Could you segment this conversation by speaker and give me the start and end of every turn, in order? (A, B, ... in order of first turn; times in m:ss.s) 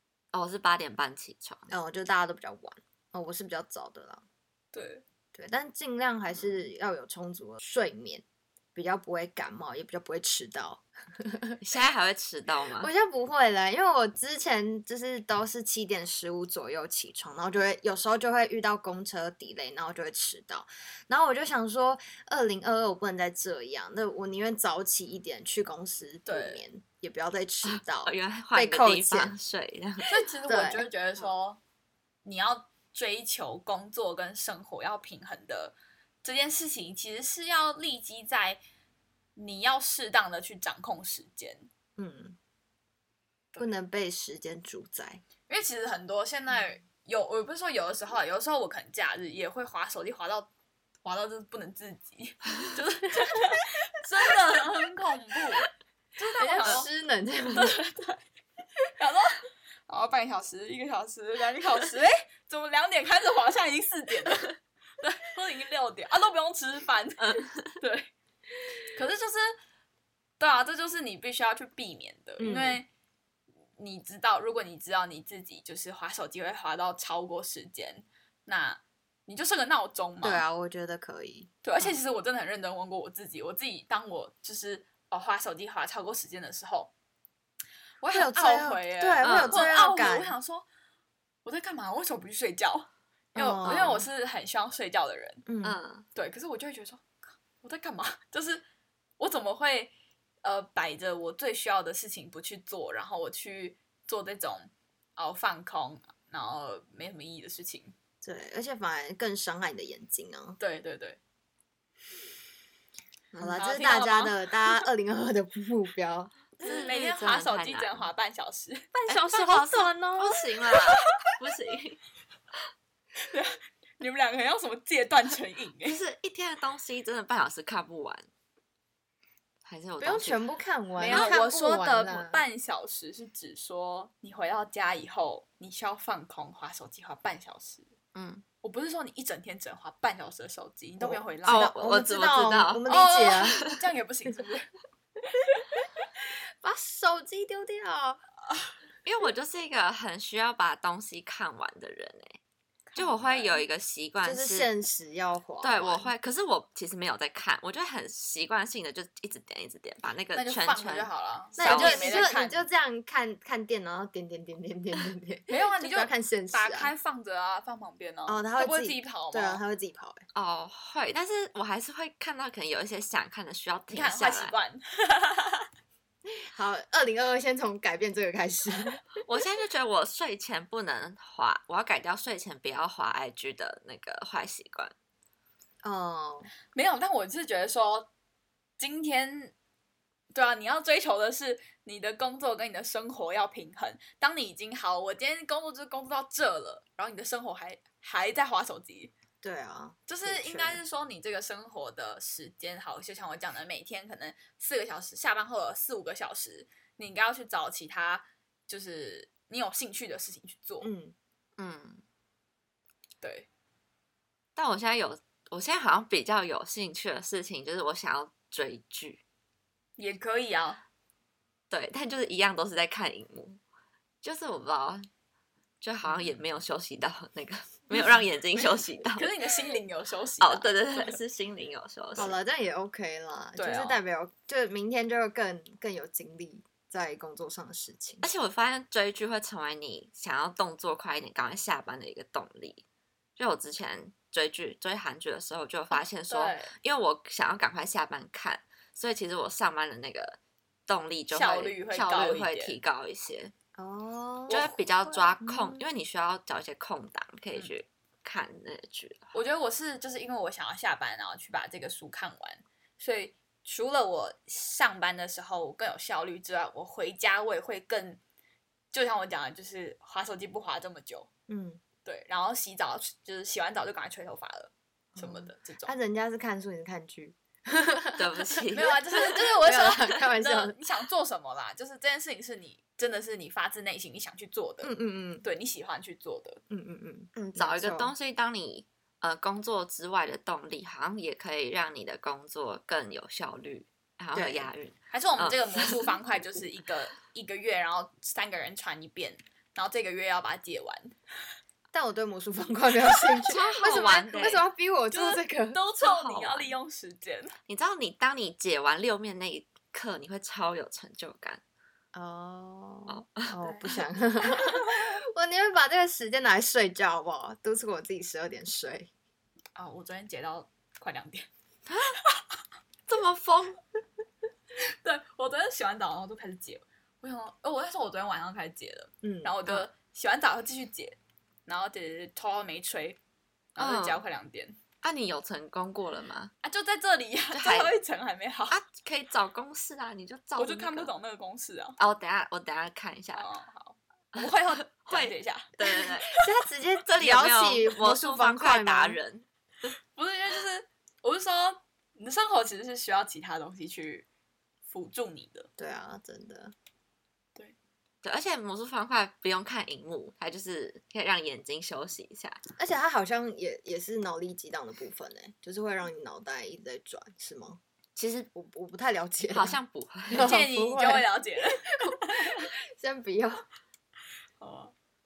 0:00.3-0:01.6 A
0:01.7-0:04.2 B
0:04.7-0:05.0 C
0:05.3-0:08.2 B
0:08.7-0:11.6 B
0:11.6-0:12.9 A
0:12.8-0:29.3 B
0:26.2-0:26.6 C
0:27.6-0:30.1 A
0:30.1-0:31.6 C
0:30.5-0:30.8 B
0:32.2-0:38.6 C
0:39.4-0:41.7 C
0:42.0-0:42.4 B
0:43.6-0:45.2 B
0:45.5-0:50.5 C
0:51.0-0:56.9 C
0:56.4-0:57.8 B
0:57.5-0:58.2 C
0:59.0-1:08.1 C
1:07.2-1:07.7 A
1:08.9-1:09.5 C
1:10.4-1:12.9 C
1:12.4-1:12.8 B
1:13.8-1:20.4 C
1:20.2-1:21.5 B
1:21.6-1:26.9 C
1:28.0-1:30.6 C
1:28.1-1:30.3 B
1:29.2-1:29.6 A
1:31.4-1:35.4 C
1:33.3-1:34.0 B
1:35.4-1:35.8 B
1:35.6-1:36.0 A
1:36.1-1:37.0 C
1:37.6-1:38.6 C
1:39.2-1:39.9 C
1:40.4-1:47.9 C
1:48.2-1:50.6 B
1:50.6-1:51.2 C
1:53.4-1:56.5 B
1:53.5-1:54.4 C
1:56.6-1:58.1 A
1:56.6-1:58.9 C
1:58.9-2:00.4 B
1:59.1-2:02.0 A
2:03.2-2:06.0 C
2:05.8-2:08.3 A
2:09.6-2:10.4 A
2:10.0-2:12.4 B
2:11.0-2:17.9 C
2:11.0-2:11.4 A
2:18.1-2:18.4 A
2:18.6-2:21.7 C
2:21.0-2:23.7 B
2:21.4-2:22.9 A
2:22.9-2:24.7 C
2:26.2-2:28.2 B
2:29.0-2:32.4 A
2:32.9-2:33.6 C
2:33.0-2:34.7 A
2:34.2-2:36.1 B
2:35.6-2:42.3 A
2:40.3-2:42.7 C
2:41.6-2:46.9 B
2:45.5-2:49.6 C
2:48.3-2:50.2 B
2:50.3-2:54.5 A
2:53.9-2:55.7 C
2:56.3-2:59.0 B
2:59.2-3:04.9 A
3:05.8-3:06.5 B
3:06.7-3:08.1 C
3:08.8-3:09.5 C
3:10.3-3:19.1 C
3:19.4-3:20.8 B
3:20.1-3:30.9 C
3:30.8-3:31.1 B
3:31.6-3:32.0 A
3:33.2-3:33.5 C
3:34.6-3:39.2 A
3:40.0-3:40.8 C
3:41.7-3:43.6 A
3:44.2-3:45.1 A
3:45.8-3:49.3 A
3:48.6-3:51.1 C
3:50.4-3:52.4 A
3:52.2-3:58.2 B
3:53.6-3:54.0 C
3:58.2-4:02.8 A
4:03.4-4:13.5 A
4:06.3-4:06.7 C
4:11.3-4:12.8 C
4:13.8-4:15.8 B
4:14.5-4:14.7 C
4:14.5-4:19.3 A
4:19.3-4:28.2 C
4:28.9-4:31.3 C
4:31.5-4:31.8 B
4:32.0-4:35.9 C
4:35.2-4:40.8 B
4:38.2-4:39.0 A
4:38.7-4:46.6 C
4:44.8-4:45.4 B
4:46.7-4:48.1 B
4:47.4-4:55.9 A
4:54.3-4:54.7 B
4:55.1-5:01.1 C
5:01.9-5:05.8 B
5:03.4-5:04.6 A
5:05.1-5:07.6 C
5:06.0-5:06.7 A
5:07.7-5:11.6 A
5:12.1-5:19.1 B
5:13.1-5:13.5 A
5:19.8-5:21.5 C
5:21.9-5:22.2 A
5:23.1-5:23.8 A
5:25.0-5:33.2 C
5:29.2-5:29.5 B
5:33.7-5:34.8 C
5:33.8-5:34.2 A
5:35.0-5:36.5 A
5:36.6-5:38.8 C
5:37.5-5:37.9 A
5:38.7-5:41.1 A
5:40.6-5:42.0 C
5:42.0-5:43.5 A
5:43.3-5:45.7 C
5:44.4-5:46.4 A
5:46.3-5:49.2 B
5:47.0-5:49.9 A
5:50.1-5:54.2 C
5:54.9-5:55.7 C
5:55.8-5:56.7 B
5:58.2-6:02.6 A
6:02.8-6:07.8 B
6:08.2-6:08.5 A
6:08.5-6:09.8 B
6:09.5-6:10.6 A
6:10.3-6:11.3 B
6:10.3-6:12.6 C
6:11.8-6:13.6 B
6:14.6-6:14.9 C